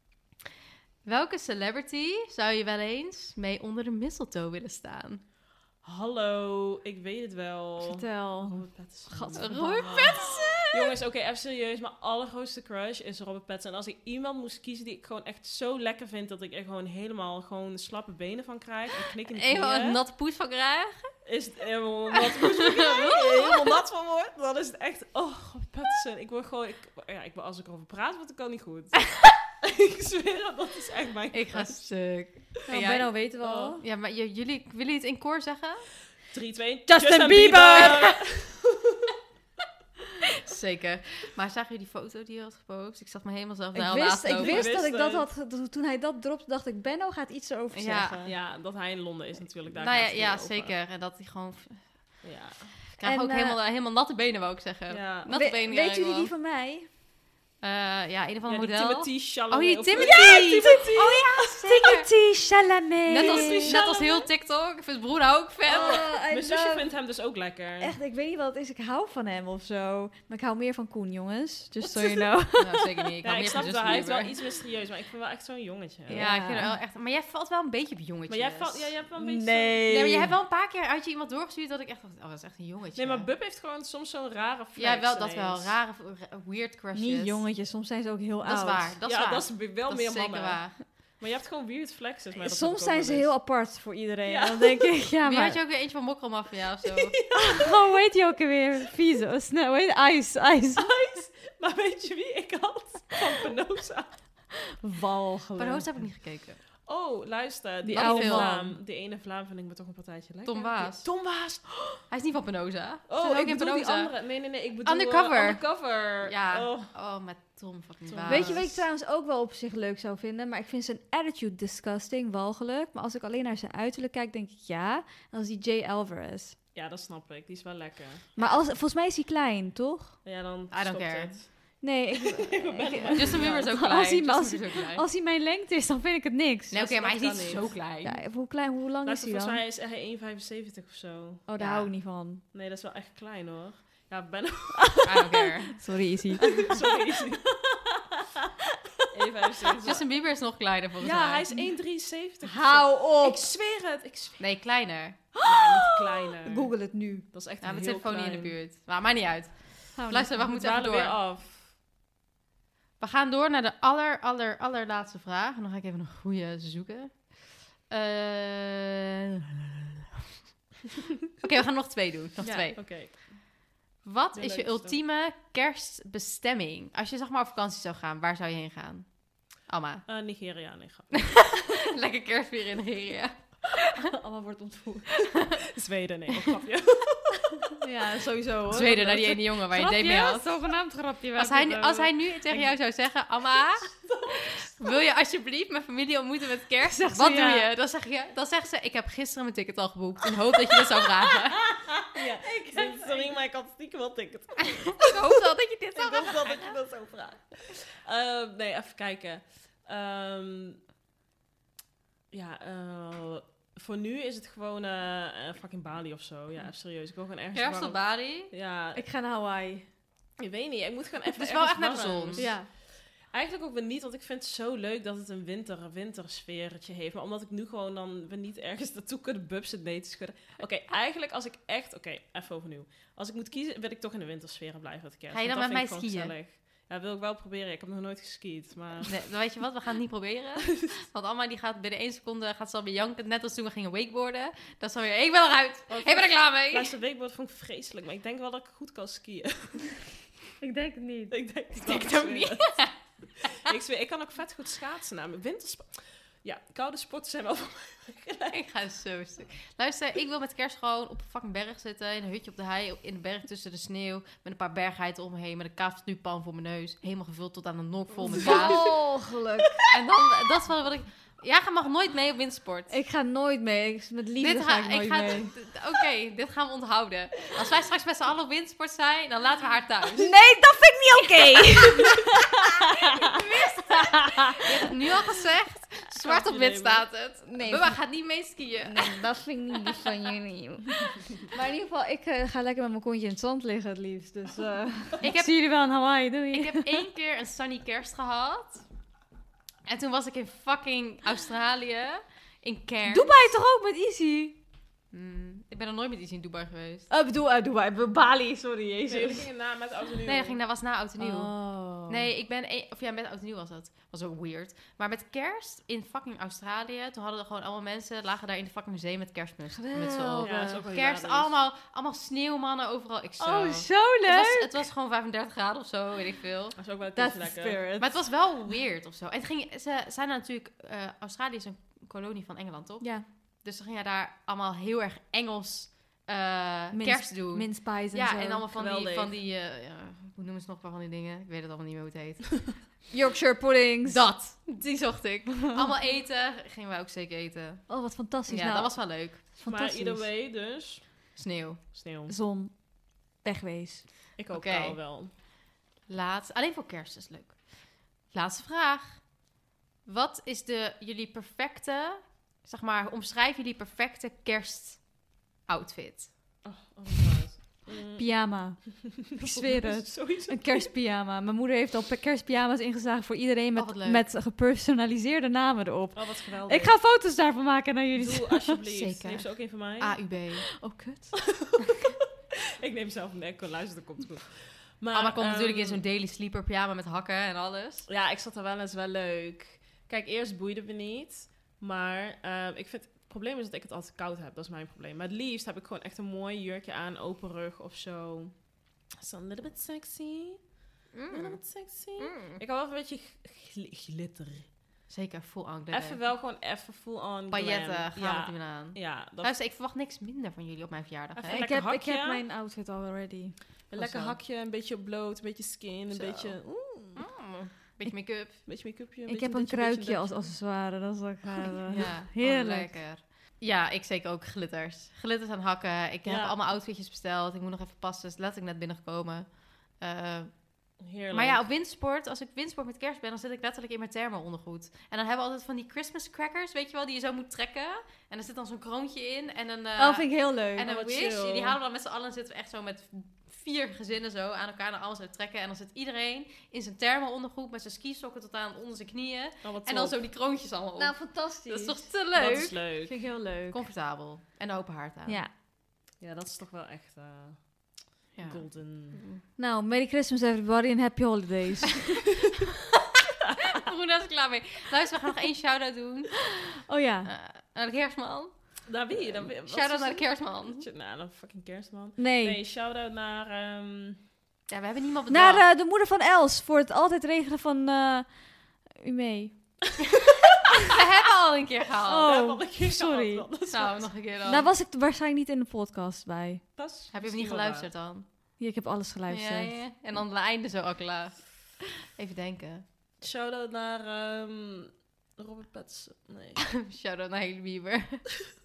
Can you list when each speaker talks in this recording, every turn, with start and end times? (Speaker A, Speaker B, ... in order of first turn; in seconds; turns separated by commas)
Speaker A: 1.0-5.2, Speaker B: 5.8-20.0, Speaker C: 7.8-10.2, Speaker A: 9.3-10.9, Speaker A: 19.3-21.1, Speaker B: 21.2-32.3, Speaker A: 22.3-23.8, Speaker A: 31.3-33.1, Speaker C: 32.7-33.8, Speaker B: 33.4-33.8, Speaker A: 33.8-35.9, Speaker B: 36.2-39.1, Speaker C: 36.9-38.2, Speaker A: 40.4-44.7, Speaker C: 43.7-48.3, Speaker B: 44.3-45.3, Speaker A: 47.7-48.3, Speaker B: 48.2-50.7, Speaker A: 49.7-52.2, Speaker B: 52.2-52.7, Speaker A: 52.9-56.3, Speaker C: 53.0-53.6, Speaker B: 54.9-55.3, Speaker C: 55.3-56.9, Speaker A: 57.6-62.1, Speaker B: 58.5-61.3, Speaker C: 59.9-63.8, Speaker A: 63.0-66.1, Speaker B: 63.2-64.3, Speaker C: 65.7-66.9, Speaker B: 65.7-68.0, Speaker C: 67.8-73.1, Speaker B: 71.8-72.3, Speaker A: 72.6-74.3, Speaker B: 73.2-76.2, Speaker C: 76.1-76.8, Speaker A: 76.1-79.0, Speaker B: 78.3-80.3, Speaker C: 79.2-79.9, Speaker A: 79.9-83.3, Speaker B: 83.0-85.7, Speaker A: 84.8-87.5, Speaker C: 86.9-88.9, Speaker A: 88.4-90.8, Speaker B: 89.0-93.4, Speaker C: 92.4-95.6, Speaker B: 94.2-94.9, Speaker A: 95.2-97.2, Speaker B: 96.8-97.7, Speaker C: 97.4-101.0, Speaker B: 100.8-104.2, Speaker C: 104.8-105.8, Speaker A: 105.6-106.6, Speaker B: 106.8-112.0, Speaker C: 107.8-108.8, Speaker A: 108.0-108.5, Speaker A: 110.5-111.1, Speaker A: 112.1-114.2, Speaker B: 113.1-116.9, Speaker A: 114.8-118.8, Speaker B: 118.1-118.8, Speaker C: 118.3-126.6, Speaker B: 126.7-128.3, Speaker C: 128.3-130.2, Speaker A: 128.4-128.7, Speaker B: 130.2-131.8, Speaker A: 130.7-131.4, Speaker C: 131.8-136.8, Speaker B: 132.4-133.7, Speaker A: 133.0-135.0, Speaker A: 136.7-138.2, Speaker B: 136.7-137.8, Speaker C: 138.0-139.6, Speaker B: 139.0-141.4, Speaker C: 141.4-142.4, Speaker A: 141.6-141.9, Speaker B: 142.5-145.0, Speaker C: 144.9-146.7, Speaker A: 145.0-145.8, Speaker B: 146.6-147.6, Speaker B: 149.1-150.1, Speaker A: 149.8-151.5, Speaker B: 151.0-154.5, Speaker C: 152.4-153.5, Speaker A: 154.4-155.2, Speaker C: 155.3-157.2, Speaker B: 155.4-156.8, Speaker B: 157.3-158.6, Speaker A: 157.6-161.2, Speaker C: 159.9-160.3, Speaker B: 160.3-161.7, Speaker A: 163.0-169.9, Speaker A: 171.4-173.1, Speaker B: 172.4-173.5, Speaker A: 174.0-180.1, Speaker B: 174.3-175.0, Speaker B: 180.1-181.8, Speaker A: 181.2-184.0, Speaker C: 184.1-185.2, Speaker B: 185.8-187.6, Speaker C: 187.8-192.6, Speaker A: 188.7-190.6, Speaker A: 191.3-193.9, Speaker B: 194.0-194.5, Speaker A: 194.5-201.8, Speaker C: 196.9-197.7, Speaker B: 201.7-205.0, Speaker C: 202.5-203.3, Speaker A: 204.9-206.8, Speaker B: 205.9-210.8, Speaker B: 212.3-219.0, Speaker A: 217.5-218.5, Speaker C: 218.9-219.9, Speaker B: 220.4-239.2, Speaker A: 221.3-222.5, Speaker C: 222.4-222.7, Speaker A: 235.3-236.3, Speaker A: 239.0-246.9, Speaker B: 245.9-250.1, Speaker C: 250.6-251.3, Speaker B: 251.3-258.7, Speaker A: 251.8-252.9, Speaker A: 258.5-268.9, Speaker B: 268.1-268.9, Speaker C: 268.4-269.8, Speaker A: 269.9-272.9, Speaker C: 272.9-275.5, Speaker A: 274.4-280.3, Speaker C: 280.1-282.3, Speaker C: 283.2-284.5, Speaker A: 283.3-289.3, Speaker B: 286.1-287.1, Speaker C: 287.4-288.1, Speaker C: 288.8-297.0, Speaker A: 295.2-295.6, Speaker A: 296.5-298.8, Speaker A: 299.8-303.3, Speaker C: 303.1-304.6, Speaker A: 305.1-307.1, Speaker C: 307.1-309.4, Speaker B: 309.1-310.6, Speaker A: 310.2-326.8, Speaker C: 311.2-312.3, Speaker C: 319.7-320.8, Speaker B: 320.4-321.5, Speaker C: 323.4-324.8, Speaker B: 326.8-327.8, Speaker C: 327.1-328.3, Speaker A: 328.0-342.8, Speaker C: 333.0-333.2, Speaker C: 336.9-338.6, Speaker B: 338.7-339.3, Speaker C: 343.1-344.2, Speaker A: 344.0-349.4, Speaker C: 347.9-350.3, Speaker B: 349.6-351.3, Speaker A: 351.4-351.8, Speaker B: 351.9-352.3, Speaker C: 352.3-354.1, Speaker B: 354.4-355.3, Speaker A: 354.5-355.0, Speaker A: 356.1-359.3, Speaker A: 360.1-366.6, Speaker B: 366.6-368.8, Speaker C: 368.1-378.8, Speaker B: 369.4-370.9, Speaker A: 373.7-374.3, Speaker B: 376.1-377.0, Speaker B: 378.1-380.1, Speaker A: 378.9-380.7, Speaker C: 380.8-381.6, Speaker B: 381.5-381.8, Speaker B: 382.8-386.0, Speaker A: 385.1-388.1, Speaker B: 388.1-400.7, Speaker A: 401.1-401.6, Speaker B: 401.3-404.7, Speaker A: 402.2-402.6, Speaker A: 405.1-406.2, Speaker B: 405.9-409.5, Speaker A: 407.5-411.6, Speaker B: 411.4-412.4, Speaker C: 411.5-413.6, Speaker B: 413.9-417.2, Speaker A: 413.9-414.4, Speaker A: 416.1-416.6, Speaker A: 417.2-418.6, Speaker B: 418.6-420.6, Speaker C: 419.3-422.9, Speaker A: 421.9-452.8, Speaker B: 426.2-426.6, Speaker B: 431.0-431.7, Speaker C: 440.0-440.9, Speaker B: 440.8-441.8, Speaker B: 449.6-450.2, Speaker C: 451.0-452.1, Speaker B: 452.3-453.3, Speaker C: 453.0-453.8, Speaker A: 453.7-455.4, Speaker C: 455.2-455.5, Speaker B: 456.2-459.2, Speaker A: 458.4-459.4, Speaker C: 459.6-462.2, Speaker A: 463.7-466.5, Speaker C: 466.8-467.3, Speaker A: 467.2-470.9, Speaker B: 468.9-474.2, Speaker C: 472.2-472.6, Speaker A: 474.7-475.7, Speaker C: 475.3-479.9, Speaker A: 480.9-482.3, Speaker C: 482.1-483.4, Speaker B: 482.2-484.1, Speaker A: 483.7-484.7, Speaker C: 484.4-486.6, Speaker B: 486.8-487.9, Speaker A: 487.1-488.2, Speaker C: 488.6-489.8, Speaker A: 489.3-492.8, Speaker B: 493.2-496.6, Speaker A: 496.6-498.3